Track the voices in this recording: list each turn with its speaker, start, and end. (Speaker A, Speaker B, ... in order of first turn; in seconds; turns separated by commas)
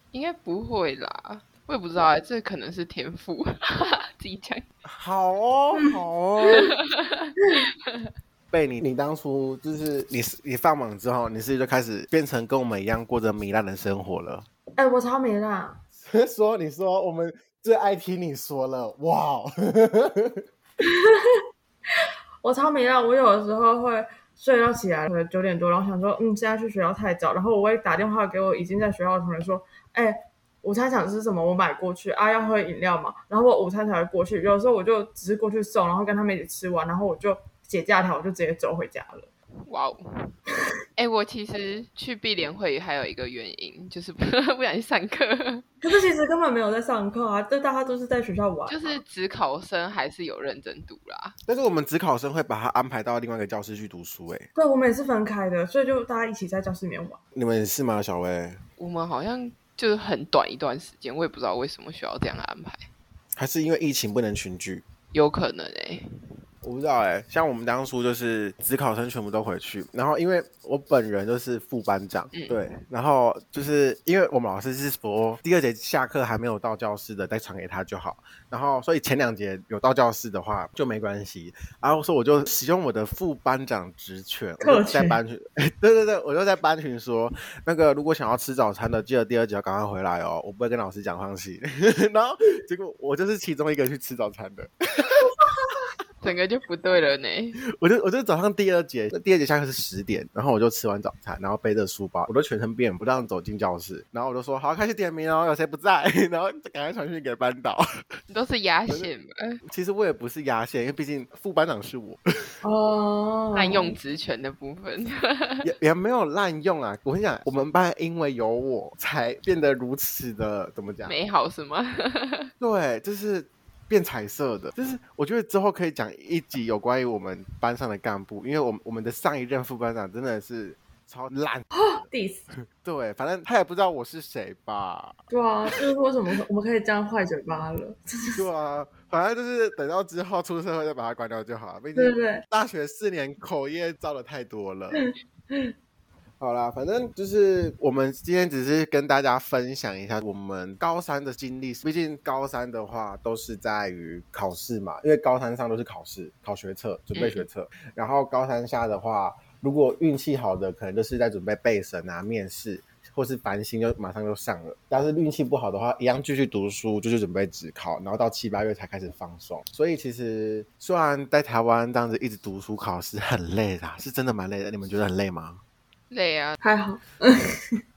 Speaker A: 0.1-4.6, Speaker B: 4.9-6.7, Speaker A: 6.5-8.1, Speaker B: 8.5-14.4, Speaker C: 14.8-15.8, Speaker B: 16.0-20.4, Speaker C: 20.8-21.2, Speaker C: 22.4-39.3, Speaker A: 39.7-40.4, Speaker A: 41.0-45.6, Speaker C: 45.8-49.0, Speaker A: 48.7-51.4, Speaker B: 51.5-54.5, Speaker C: 54.5-57.2, Speaker B: 57.4-58.6, Speaker A: 58.8-62.9, Speaker B: 63.4-64.8, Speaker A: 65.1-66.0, Speaker B: 66.6-95.3, Speaker A: 72.3-72.6, Speaker C: 84.6-85.2, Speaker A: 96.2-97.6, Speaker B: 97.8-107.8, Speaker A: 108.3-109.6, Speaker B: 109.7-112.2, Speaker C: 112.6-114.0, Speaker A: 113.5-115.7, Speaker B: 115.6-121.1, Speaker A: 121.0-122.5, Speaker B: 122.6-132.1, Speaker C: 131.7-132.5, Speaker B: 132.7-135.2, Speaker C: 135.3-138.4, Speaker B: 138.4-145.0, Speaker C: 141.9-142.4, Speaker C: 144.9-145.7, Speaker B: 146.4-175.6, Speaker A: 157.1-157.4, Speaker A: 176.1-176.6, Speaker C: 176.6-177.8